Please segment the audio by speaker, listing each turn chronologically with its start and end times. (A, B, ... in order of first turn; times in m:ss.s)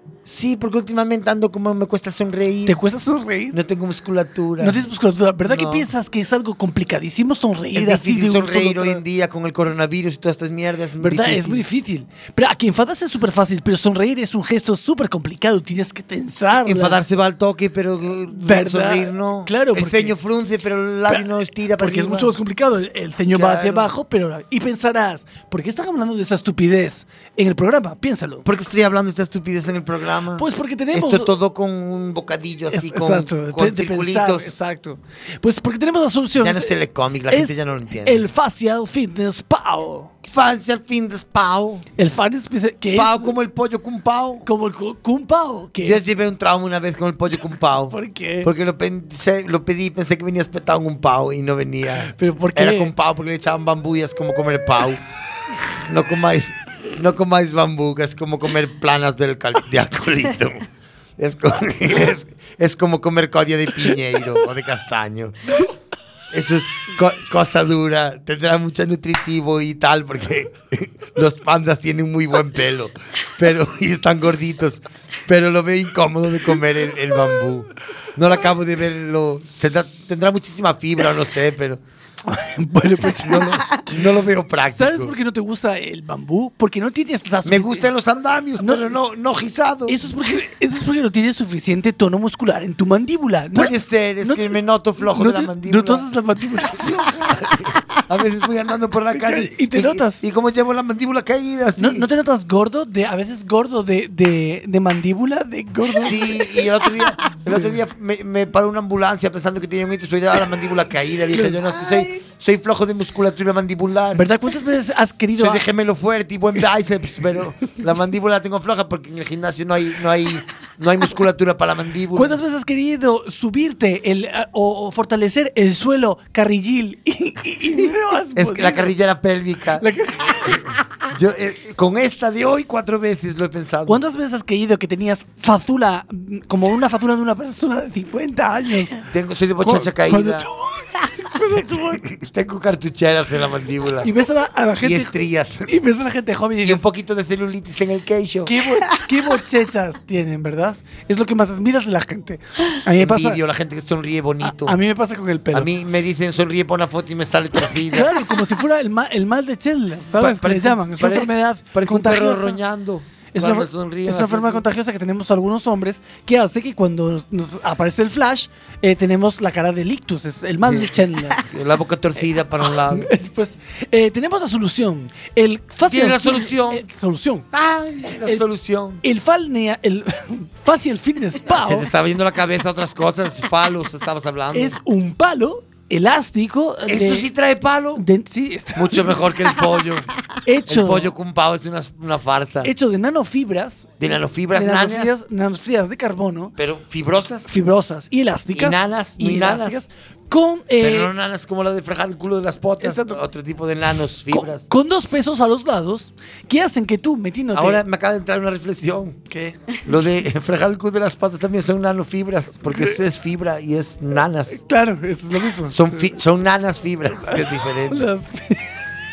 0:00.3-0:02.8 A
0:02.7-0:03.6 B
0:03.5-0:04.8 A
0:04.6-0:09.0 B
0:05.4-0:05.9 A
0:07.7-0:11.7 A
0:11.0-0:17.0 B
0:16.6-0:22.3 A
0:18.4-0:20.1 B
0:21.8-0:28.4 B
0:23.3-0:23.9 A
0:28.4-0:34.6 A
0:30.4-0:31.3 B
0:32.7-0:36.7 B
0:36.4-0:38.2 A
0:37.3-0:40.1 B
0:40.2-0:41.9 A
0:42.0-0:43.3 B
0:42.9-0:44.5 A
0:44.4-0:46.0 B
0:45.8-0:55.0 A
0:47.9-0:48.5 B
0:52.2-0:52.9 B
0:55.8-1:00.7 A
1:01.2-1:05.4 A
1:06.3-1:21.8 A
1:22.3-1:23.8 B
1:23.2-1:25.1 A
1:24.7-1:27.9 B
1:27.4-1:30.0 A
1:28.6-1:28.9 B
1:29.9-1:34.5 B
1:33.5-1:36.1 A
1:35.0-1:37.2 B
1:36.8-1:42.1 A
1:39.1-1:40.2 B
1:41.8-1:46.5 B
1:46.0-1:54.2 A
1:54.2-1:55.6 B
1:55.4-2:02.4 A
2:02.2-2:08.9 B
2:08.4-2:09.9 A
2:09.8-2:10.7 B
2:11.1-2:14.0 A
2:13.9-2:19.0 B
2:19.1-2:20.5 A
2:19.6-2:22.0 B
2:21.8-2:24.1 A
2:24.0-2:26.8 B
2:24.8-2:25.8 A
2:26.6-2:28.5 A
2:28.5-2:33.4 B
2:33.0-2:34.8 A
2:34.4-2:35.7 B
2:35.5-2:38.2 A
2:37.9-2:42.6 B
2:40.2-2:44.7 A
2:43.4-2:51.4 B
2:50.6-2:53.1 A
2:52.9-2:57.5 B
2:55.8-2:56.8 A
2:57.5-2:59.0 A
2:58.2-2:58.4 B
2:59.0-3:01.9 B
3:01.5-3:04.8 A
3:04.5-3:07.3 B
3:06.9-3:08.0 A
3:08.0-3:09.2 B
3:08.8-3:10.1 A
3:10.4-3:11.1 B
3:10.7-3:12.7 A
3:12.6-3:13.9 B
3:14.0-3:15.2 A
3:14.5-3:16.5 B
3:16.6-3:17.5 A
3:17.5-3:21.1 B
3:18.5-3:19.8 A
3:20.8-3:24.7 A
3:22.8-3:23.2 B
3:24.3-3:27.8 B
3:27.5-3:29.2 A
3:29.3-3:30.0 B
3:29.9-3:34.6 A
3:34.6-3:36.1 B
3:35.7-3:38.1 A
3:37.9-3:38.6 B